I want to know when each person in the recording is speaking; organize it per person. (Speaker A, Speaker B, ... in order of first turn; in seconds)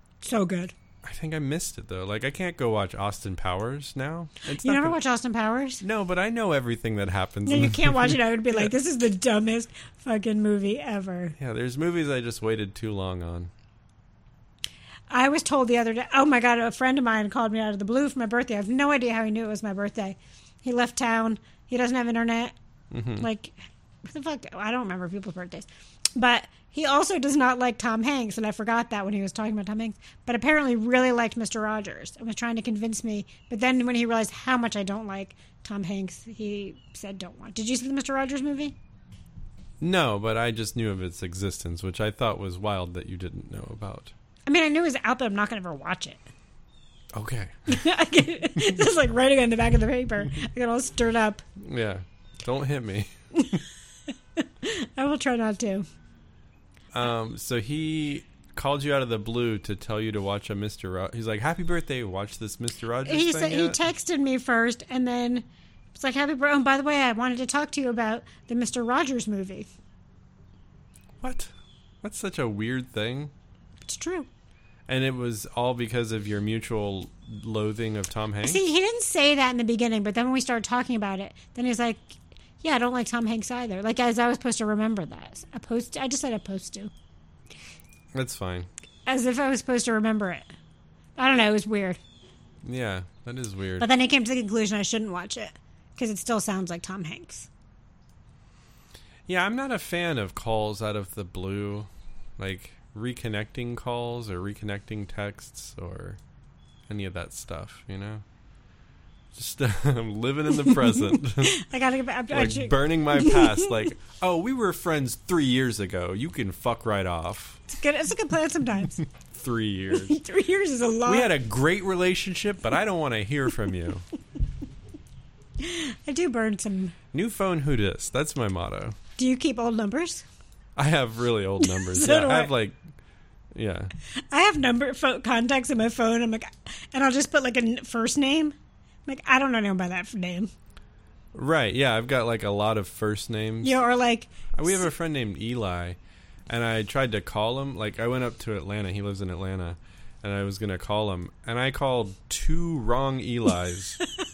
Speaker A: 0.2-0.7, 4.5-5.8, 7.5-11.4, 15.1-22.6, 23.2-38.8, 44.5-46.2, 47.7-51.4, 54.4-55.9, 63.0-69.7, 73.9-74.3, 78.4-86.9, 89.1-90.5, 91.2-92.0, 93.8-97.5, 111.4-113.7, 117.7-119.0, 119.9-121.3, 125.6-127.0, 129.2-130.2, 131.6-132.5, 134.3-138.6, 139.1-140.5, 143.6-144.9
Speaker B: 1.0-5.0, 5.8-8.7, 11.4-13.5, 22.9-23.3, 39.8-44.1, 47.1-47.9, 51.6-53.6, 56.9-63.8, 71.2-71.5, 72.0-73.3, 74.9-78.6, 88.1-88.7, 92.6-93.9, 99.3-106.2, 106.9-108.2, 109.3-111.6, 112.3-117.6, 119.2-120.2, 121.1-124.0, 127.1-129.0, 130.8-132.8, 133.5-133.9, 141.3-143.8, 144.5-146.0, 146.5-154.0